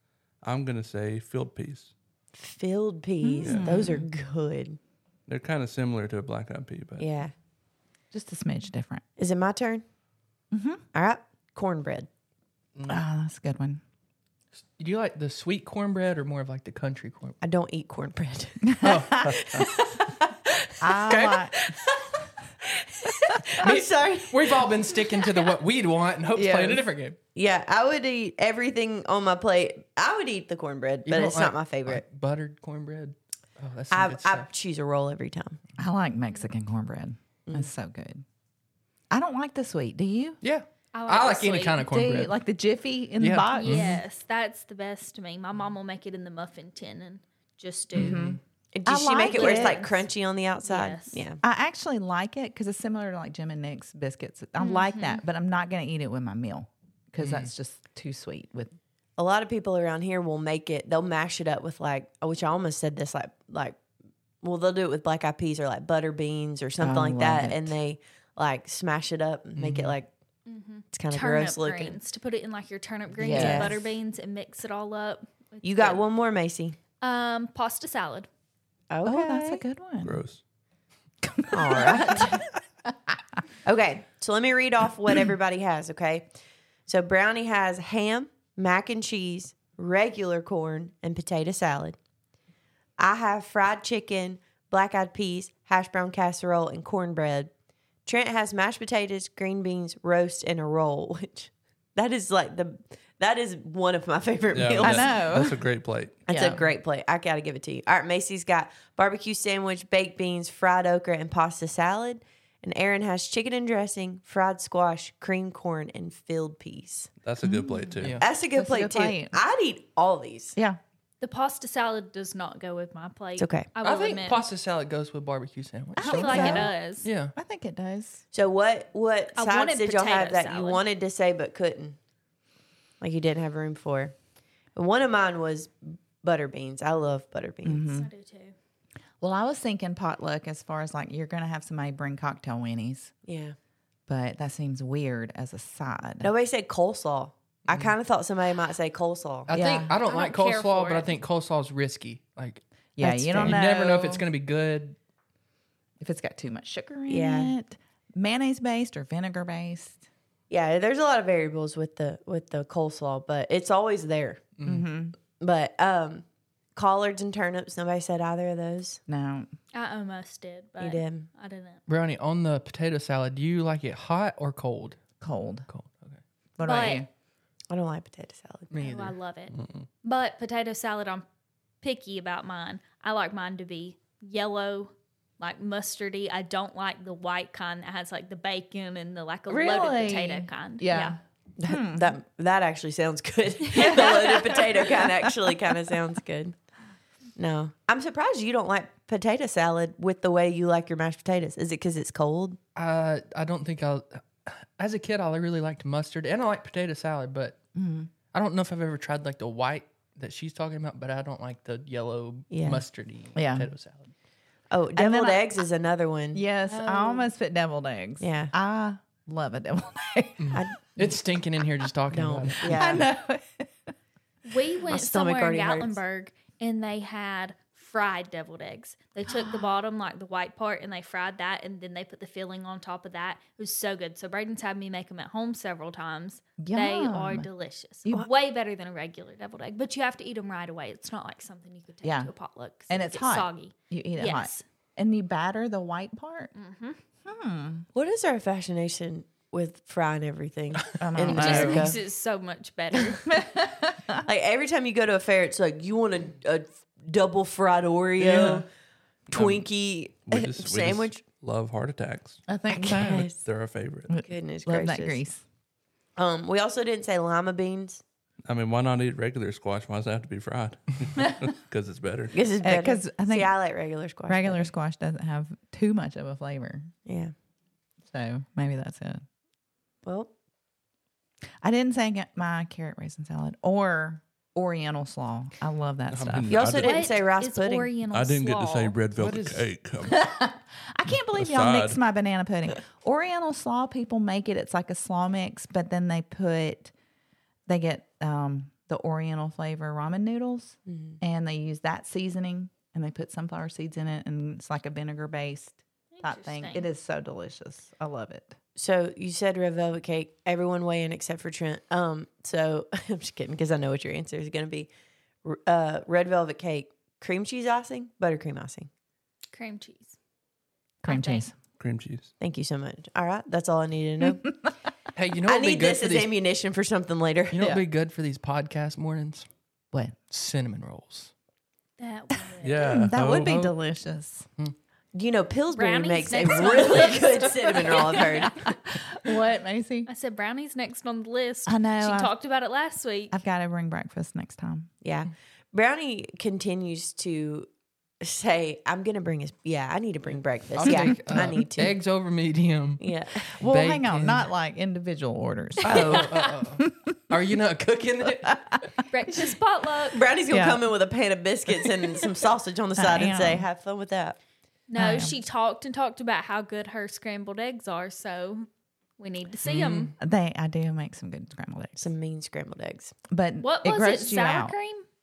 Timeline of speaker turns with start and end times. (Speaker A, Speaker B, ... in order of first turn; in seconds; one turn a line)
Speaker A: 0.4-1.9
Speaker B: 2.3-4.8
Speaker C: 3.2-4.1
Speaker A: 3.4-3.8
Speaker A: 5.3-7.1
Speaker B: 7.0-7.3
Speaker C: 8.1-9.0
Speaker B: 9.2-9.8
Speaker C: 10.5-10.8
Speaker B: 10.9-12.1
Speaker D: 12.8-13.0
Speaker C: 12.9-13.8
Speaker D: 14.6-17.4
Speaker B: 17.4-22.1
Speaker C: 18.7-19.4
Speaker D: 18.8-19.4
Speaker C: 20.8-21.7
Speaker B: 22.6-25.1
Speaker D: 23.6-27.2
Speaker C: 26.3-26.8
Speaker B: 27.4-32.0
Speaker D: 31.1-34.5
Speaker B: 33.9-35.6
Speaker C: 35.8-38.2
Speaker C: 39.1-40.4
Speaker D: 40.4-42.4
Speaker E: 40.9-41.9
Speaker C: 41.9-44.0
Speaker D: 43.2-44.0
Speaker E: 43.5-48.3
Speaker C: 47.9-49.9
Speaker D: 48.0-48.4
Speaker B: 48.7-51.4
Speaker E: 49.3-49.9
Speaker E: 50.6-51.3
Speaker C: 51.4-58.7
Speaker E: 54.6-55.2
Speaker D: 57.2-57.5
Speaker B: 59.2-63.8
Speaker B: 64.4-70.1
Speaker C: 66.8-67.8
Speaker D: 69.6-69.9
Speaker E: 70.5-76.0
Speaker B: 70.9-72.0
Speaker C: 73.2-73.7
Speaker B: 73.2-73.8
Speaker B: 75.6-76.8
Speaker E: 77.0-78.3
Speaker B: 78.9-79.6
Speaker C: 79.0-80.2
Speaker A: 80.0-80.4
Speaker C: 81.2-82.4
Speaker B: 81.5-82.4
Speaker B: 83.6-86.3
Speaker B: 86.9-92.0
Speaker B: 93.0-97.5
Speaker B: 98.1-105.2
Speaker A: 104.5-106.2
Speaker C: 104.8-105.7
Speaker C: 106.3-106.6
Speaker B: 106.3-117.1
Speaker A: 117.2-118.2
Speaker C: 117.4-119.4
Speaker B: 118.2-120.6
Speaker E: 121.2-124.5
Speaker B: 123.4-123.7
Speaker D: 123.8-127.3
Speaker C: 126.0-126.7
Speaker E: 126.0-127.1
Speaker C: 127.3-128.2
Speaker B: 128.3-132.0
Speaker E: 129.4-130.8
Speaker B: 133.0-134.1
Speaker B: 134.7-137.8
Speaker C: 137.6-138.1
Speaker E: 137.8-138.5
Speaker C: 139.2-143.1
Speaker B: 143.3-143.6
Speaker C: 144.1-146.3
Speaker B: 146.2-149.9
Speaker D: 149.5-155.0
Speaker C: 149.6-149.9
Speaker E: 150.0-151.2
Speaker C: 153.0-154.2
Speaker C: 156.0-160.0
Speaker B: 157.1-157.5
Speaker B: 160.5-164.4
Speaker D: 164.6-164.9
Speaker C: 164.6-165.1
Speaker B: 165.4-169.0
Speaker C: 169.1-169.5
Speaker E: 169.7-171.8
Speaker B: 170.8-171.3
Speaker D: 171.9-175.0
Speaker C: 175.2-175.7
Speaker D: 175.7-176.2
Speaker C: 176.6-177.1
Speaker E: 176.6-177.0
Speaker B: 177.7-178.8
Speaker D: 178.7-179.2
Speaker E: 178.8-181.3
Speaker A: 179.5-179.9
Speaker E: 181.8-191.2
Speaker C: 189.5-192.2
Speaker B: 191.6-196.6
Speaker C: 193.7-195.3
Speaker B: 197.4-202.6
Speaker D: 202.7-207.6
Speaker C: 207.7-208.1
Speaker D: 208.3-214.1
Speaker B: 212.5-212.8
Speaker C: 213.3-213.7
Speaker B: 214.7-216.4
Speaker C: 214.9-215.4
Speaker C: 216.3-221.1
Speaker E: 216.7-217.3
Speaker B: 218.2-218.5
Speaker D: 220.4-223.1
Speaker B: 222.1-223.1
Speaker C: 222.6-223.9
Speaker E: 224.4-244.6
Speaker B: 224.9-226.0
Speaker C: 229.3-229.6
Speaker C: 236.6-237.5
Speaker C: 242.0-242.3
Speaker C: 242.9-246.5
Speaker E: 246.6-247.0
Speaker C: 247.2-247.9
Speaker B: 247.9-252.0
Speaker C: 251.0-251.9
Speaker E: 251.3-253.6
Speaker C: 253.3-254.1
Speaker B: 254.2-258.7
Speaker D: 258.2-258.6
Speaker A: 259.3-259.7
Speaker B: 259.3-261.2
Speaker A: 260.3-262.4
Speaker C: 262.5-263.3
Speaker B: 262.7-263.4
Speaker A: 263.4-264.1
Speaker C: 264.1-265.4
Speaker B: 264.2-265.2
Speaker B: 266.2-268.0
Speaker A: 268.4-272.4
Speaker B: 272.3-274.7
Speaker C: 272.6-273.6
Speaker C: 274.3-276.9
Speaker B: 277.1-277.3
Speaker C: 278.1-279.2
Speaker B: 280.0-280.3
Speaker C: 281.6-286.7
Speaker A: 286.1-287.1
Speaker B: 286.5-287.9
Speaker E: 286.8-289.0
Speaker A: 288.1-290.2
Speaker D: 289.2-289.7
Speaker C: 290.1-296.9
Speaker A: 291.4-292.0
Speaker C: 297.7-308.6
Speaker B: 300.9-301.2
Speaker E: 306.1-306.9
Speaker B: 308.8-314.9
Speaker B: 315.4-318.9
Speaker E: 319.5-320.2
Speaker C: 321.0-321.6
Speaker E: 321.1-321.5
Speaker A: 321.8-322.3
Speaker B: 322.4-324.5
Speaker C: 324.2-324.7
Speaker D: 325.1-326.3
Speaker B: 325.4-327.7
Speaker D: 327.5-329.5
Speaker C: 329.9-330.2
Speaker D: 330.3-331.3
Speaker E: 332.0-333.1
Speaker A: 332.6-333.7
Speaker C: 332.8-334.5
Speaker D: 333.4-333.7
Speaker B: 335.1-338.6
Speaker E: 335.7-338.8
Speaker C: 338.9-340.1
Speaker E: 340.1-343.4
Speaker C: 341.7-342.3
Speaker C: 343.3-344.9
Speaker B: 345.0-347.7
Speaker B: 348.2-351.9
Speaker D: 350.7-353.1
Speaker C: 350.8-351.6
Speaker B: 353.0-353.5
Speaker C: 353.5-356.3
Speaker D: 353.6-354.5
Speaker B: 355.9-356.2
Speaker D: 355.9-358.7
Speaker E: 355.9-356.6
Speaker C: 356.8-357.1
Speaker E: 359.1-360.2
Speaker B: 360.1-364.4
Speaker C: 360.5-360.8
Speaker C: 363.0-363.7
Speaker E: 364.9-368.7
Speaker C: 364.9-365.4
Speaker E: 369.2-370.1
Speaker D: 369.6-370.1
Speaker C: 370.2-372.1
Speaker B: 372.0-373.1
Speaker C: 373.3-374.7
Speaker E: 373.6-375.0